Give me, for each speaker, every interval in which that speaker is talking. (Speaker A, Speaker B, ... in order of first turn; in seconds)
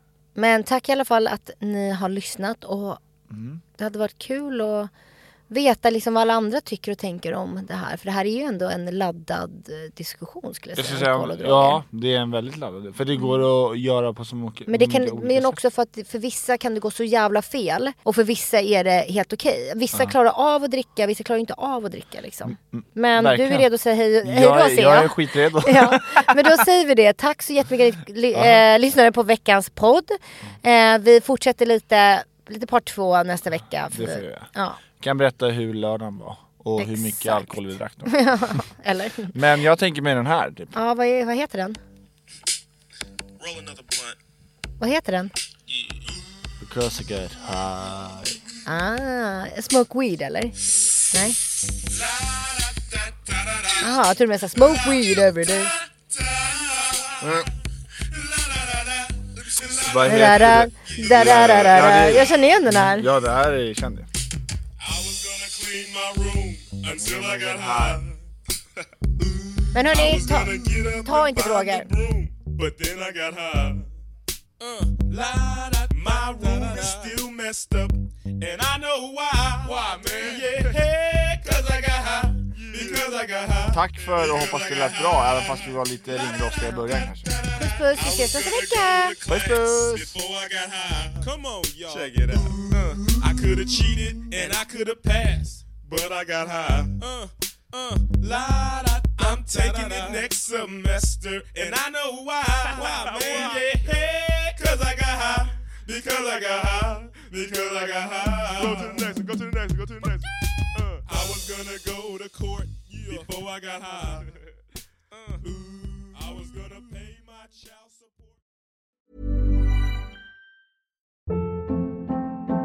Speaker A: 0.4-3.0, 3.8-4.9, 5.5-11.8, 13.2-13.4, 14.7-34.8, 36.8-39.4, 40.7-41.8, 44.8-45.3, 48.7-50.5, 51.1-51.4, 53.8-55.7, 60.0-63.1, 69.7-71.9, 87.5-89.2
Speaker B: 3.3-3.6, 10.8-15.6, 22.5-23.7, 24.2-26.6, 28.3-28.6, 33.9-38.6, 39.3-40.7, 46.6-48.4, 57.2-57.5, 59.7-64.1, 67.2-67.9, 83.7-87.3, 89.2-90.1
Speaker C: 43.4-44.1, 51.9-53.9, 54.9-57.5, 58.0-60.9, 64.8-68.1, 69.2-73.9, 74.6-110.3, 110.8-114.3, 115.1-118.4